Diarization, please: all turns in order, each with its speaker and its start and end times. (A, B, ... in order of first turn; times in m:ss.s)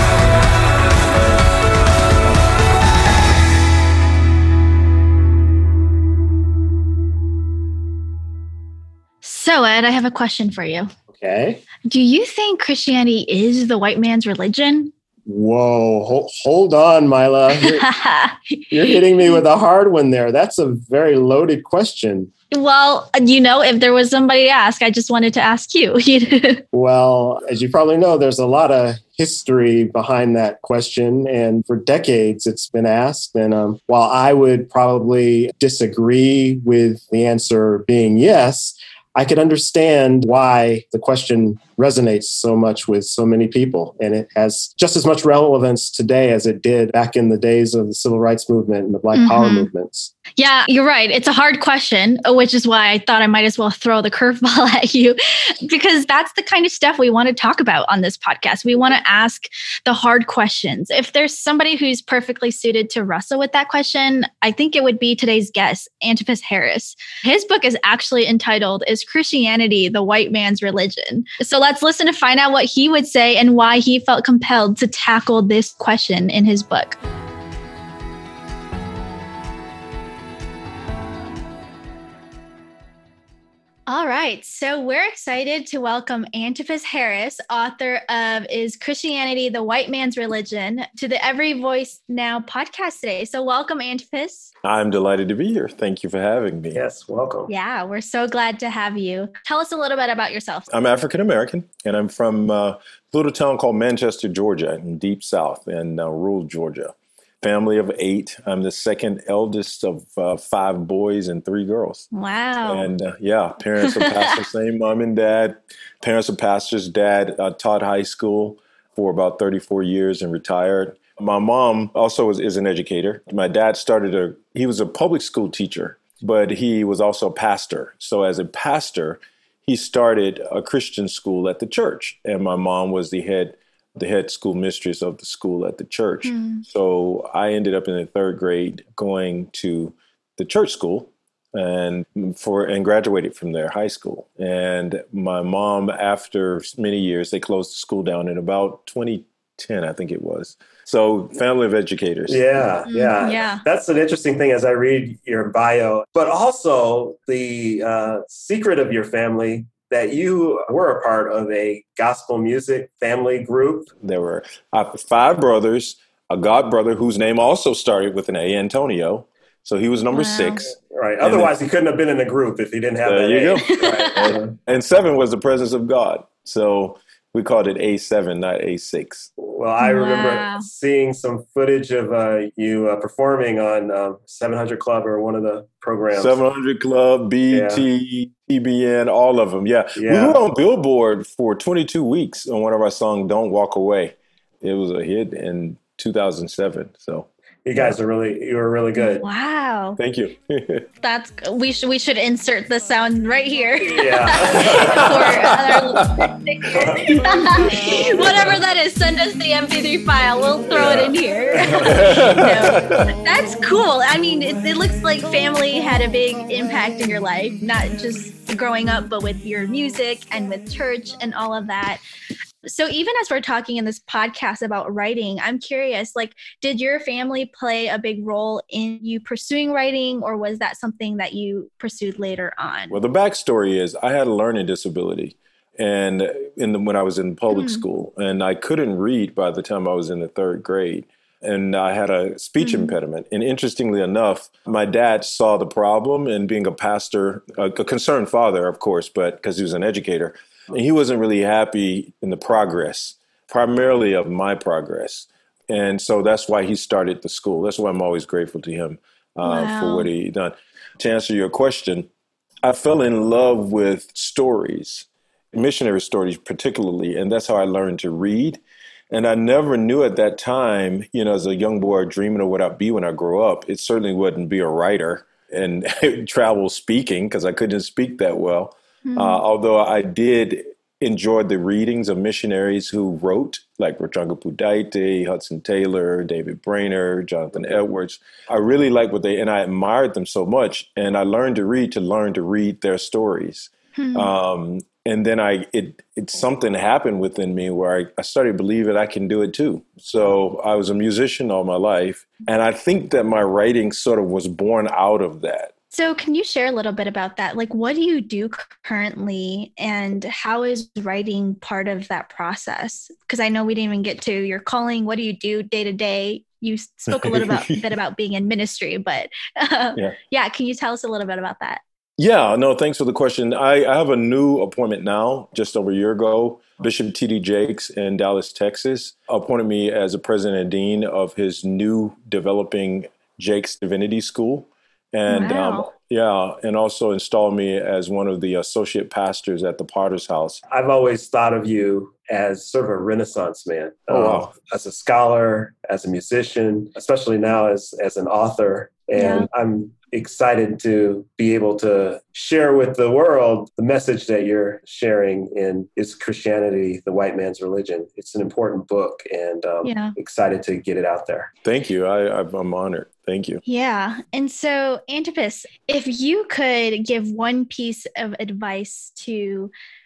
0:09.2-0:10.9 A
0:11.1-0:11.6 B
0:11.8-0:14.9 A
0:15.2-0:17.9 B
0:17.6-0:19.4 A
0:18.7-0:22.3 B
0:22.5-0:26.6 A
0:26.7-0:50.1 B
0:49.1-0:49.7 A
0:50.4-1:17.0 A
1:23.9-1:34.5 A
1:34.6-1:36.8 C
1:36.7-1:37.5 B
1:37.5-1:40.7 A
1:40.7-1:52.0 C
1:52.1-1:52.9 A
1:52.6-2:32.6 C
1:53.8-1:54.4 A
2:16.2-2:16.6 A
2:32.3-2:43.9 B
2:32.9-2:33.6 A
2:44.0-2:51.5 C
2:50.1-2:50.7 A
2:50.9-2:54.5 B
2:53.0-2:59.3 C
2:53.8-2:54.2 A
2:59.4-3:06.4 B
2:59.8-3:00.6 A
3:06.1-3:17.9 C
3:07.5-3:07.8 B
3:10.0-3:10.4 B
3:17.6-3:19.2 B
3:19.0-3:20.0 A
3:20.0-3:20.8 C
3:21.0-3:42.0 A
3:23.9-3:25.1 B
3:24.5-3:26.3 C
3:27.0-3:27.8 C
3:30.7-3:32.0 B
3:31.8-3:33.1 C
3:42.6-3:53.0 A
3:52.9-4:22.1 C
3:57.5-3:57.8 A
4:02.6-4:02.9 A
4:19.4-4:20.1 A
4:22.6-5:05.7 C
4:39.0-4:39.4 A
4:54.0-4:54.3 A
5:05.9-5:21.8 A
5:17.1-5:17.8 C
5:22.2-5:40.6 C
5:35.3-5:35.9 A
5:40.7-6:01.5 B
5:44.1-5:44.5 C
5:49.1-5:49.4 A
5:59.8-6:00.1 A
6:01.6-6:03.6 C
6:03.6-6:09.7 A